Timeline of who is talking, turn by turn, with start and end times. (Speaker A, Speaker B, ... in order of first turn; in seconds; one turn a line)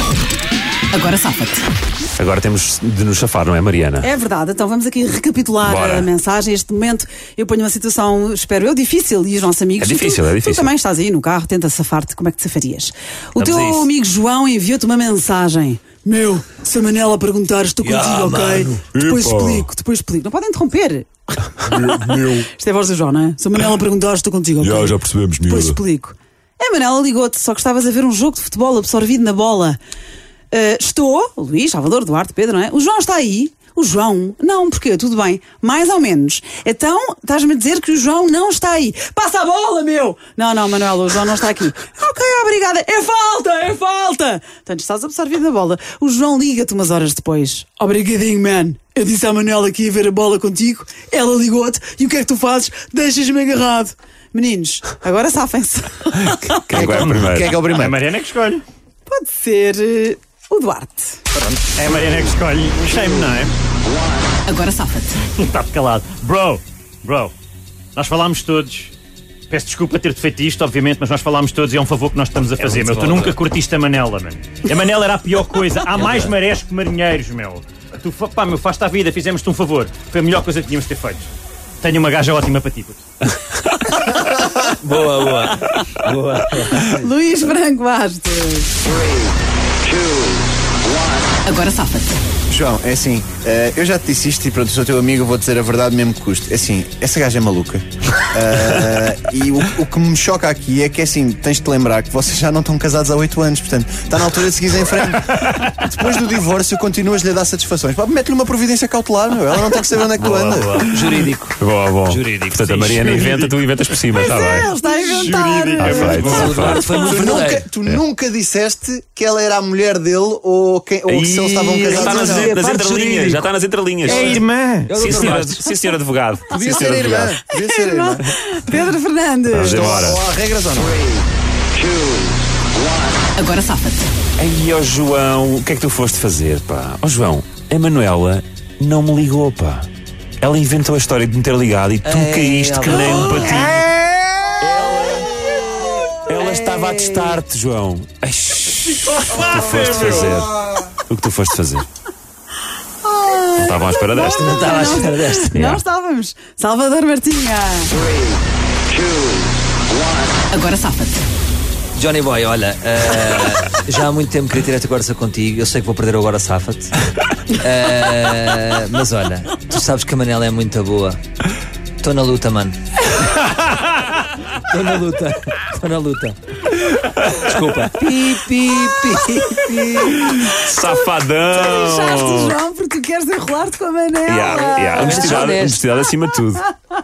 Speaker A: 0.9-1.6
Speaker B: 2.2-4.1
Speaker A: 4.0-29.8
Speaker B: 5.6-6.1
Speaker B: 9.8-10.7
Speaker C: 13.4-13.9
Speaker C: 17.8-18.8
Speaker B: 19.0-19.7
Speaker B: 21.9-22.4
Speaker B: 24.6-25.8
Speaker A: 30.5-56.6
Speaker B: 56.5-57.5
Speaker D: 56.7-58.0
Speaker E: 56.8-58.6
Speaker A: 59.1-61.2
Speaker E: 61.3-63.5
Speaker A: 64.4-65.2
Speaker E: 65.3-67.3
Speaker E: 68.0-68.9
Speaker E: 69.5-83.0
Speaker C: 72.6-73.3
Speaker C: 76.0-76.3
Speaker D: 84.2-84.5
Speaker C: 84.8-86.9
Speaker A: 86.8-88.7
Speaker A: 91.4-92.1
Speaker D: 92.5-110.8
Speaker C: 110.2-113.2
Speaker B: 110.8-114.7
Speaker E: 112.8-113.5
Speaker A: 114.1-117.2
Speaker E: 114.8-116.8
Speaker B: 115.8-116.9
Speaker C: 116.2-117.7
Speaker D: 116.9-122.6
Speaker B: 121.1-124.4
Speaker C: 121.4-123.5
Speaker E: 124.0-125.5
Speaker C: 124.9-125.7
Speaker B: 124.9-127.3
Speaker D: 126.5-128.2
Speaker A: 127.5-130.0
Speaker B: 129.5-130.2
Speaker D: 129.7-131.0
Speaker A: 133.3-134.1
Speaker B: 134.4-139.9
Speaker B: 140.4-143.9
Speaker C: 142.0-143.8
Speaker B: 144.6-145.3
Speaker B: 146.2-151.9
Speaker C: 146.3-147.4
Speaker E: 149.1-150.3
Speaker A: 153.0-157.9
Speaker B: 153.6-154.4
Speaker C: 154.3-155.5
Speaker B: 155.5-155.8
Speaker A: 160.5-161.2
Speaker C: 161.9-167.0
Speaker C: 167.6-171.2
Speaker C: 172.0-172.8
Speaker C: 174.6-176.4
Speaker B: 176.9-177.5
Speaker C: 177.3-180.1
Speaker A: 179.7-185.5
Speaker B: 180.1-182.6
Speaker B: 184.3-186.7
Speaker C: 184.5-185.8